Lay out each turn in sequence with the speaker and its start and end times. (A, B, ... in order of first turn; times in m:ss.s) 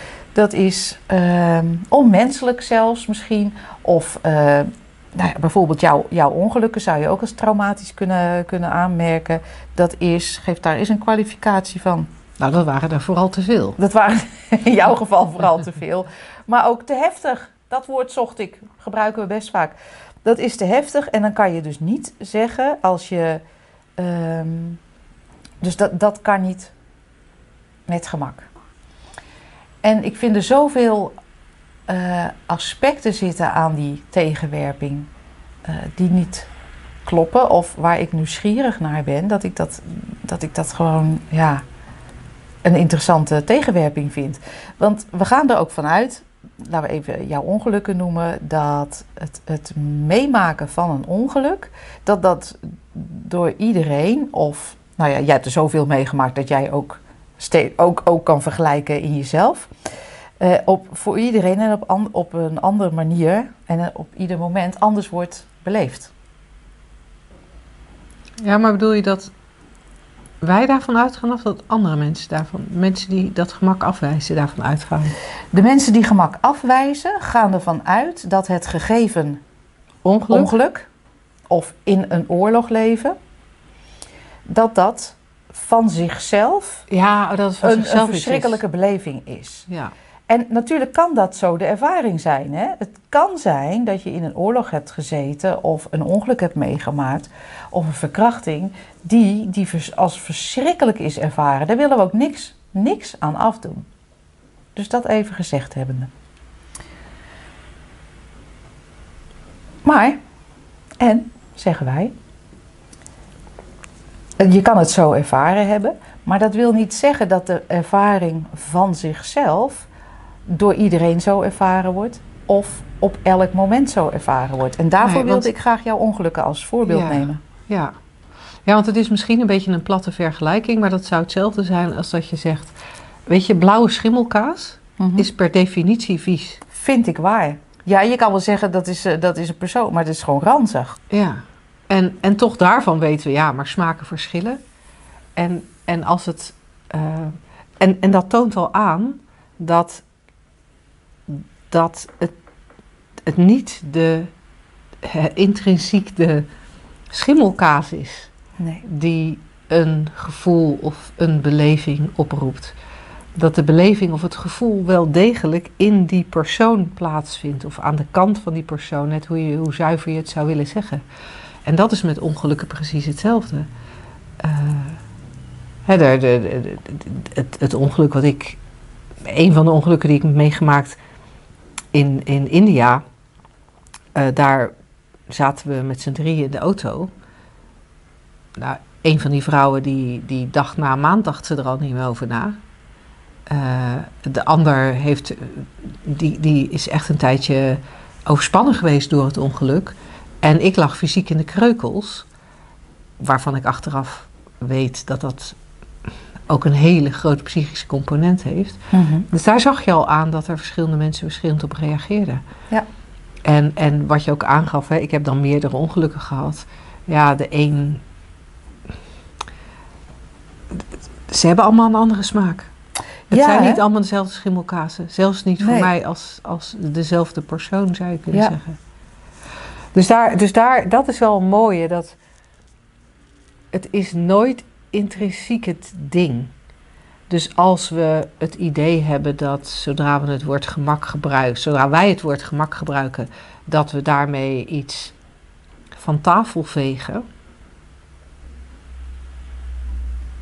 0:00.3-0:12.1 A
0:12.4-0:13.8 B
0:13.8-0:23.4 A
0:24.0-0:24.8 A
0:25.6-0:26.7 A
0:27.9-0:28.5 A
0:29.8-0:31.1 A
0:31.9-0:35.1 A
0:35.6-0:36.5 A
0:37.0-0:41.6 A
0:42.6-0:59.7 A
1:00.4-1:06.1 A
1:08.4-1:09.3 B
1:10.4-1:15.2 B
1:15.5-1:19.4 A
1:20.0-1:20.5 B
1:20.3-1:20.9 A
1:21.5-1:23.2 A
1:24.5-1:26.9 A
1:26.9-1:28.6 B
1:27.6-1:29.7 A
1:30.3-1:43.9 A
1:44.7-1:46.1 A
1:49.8-1:50.2 A
1:51.0-1:52.1 A
1:54.4-1:59.9 A
2:00.5-2:07.4 A
2:05.0-2:05.5 B
2:06.8-2:07.9 B
2:08.6-2:12.7 B
2:13.3-2:16.6 B
2:15.0-2:15.3 A
2:16.7-2:21.0 A
2:21.1-2:24.6 B
2:25.4-2:30.0 B
2:31.3-2:32.3 B
2:33.2-2:34.3 B
2:35.0-2:36.5 B
2:37.1-2:38.3 B
2:38.6-2:38.8 A
2:38.8-2:42.7 B
2:43.3-2:51.0 B
2:51.6-2:53.7 B
2:54.4-2:55.0 B
2:55.8-2:58.6 B
2:59.2-3:01.0 B
3:01.9-3:03.0 B
3:04.1-3:04.7 B
3:05.3-3:07.1 B
3:08.6-3:12.6 B
3:13.5-3:22.2 B
3:23.2-3:25.6 B
3:26.5-3:32.4 B
3:28.9-3:29.3 A
3:33.4-3:38.0 B
3:40.7-3:42.7 B
3:43.3-3:48.8 B
3:43.3-3:43.8 A
3:45.6-3:45.9 A
3:49.9-3:52.2 B
3:53.7-3:56.5 B
3:57.3-4:05.1 B
4:05.9-4:07.2 B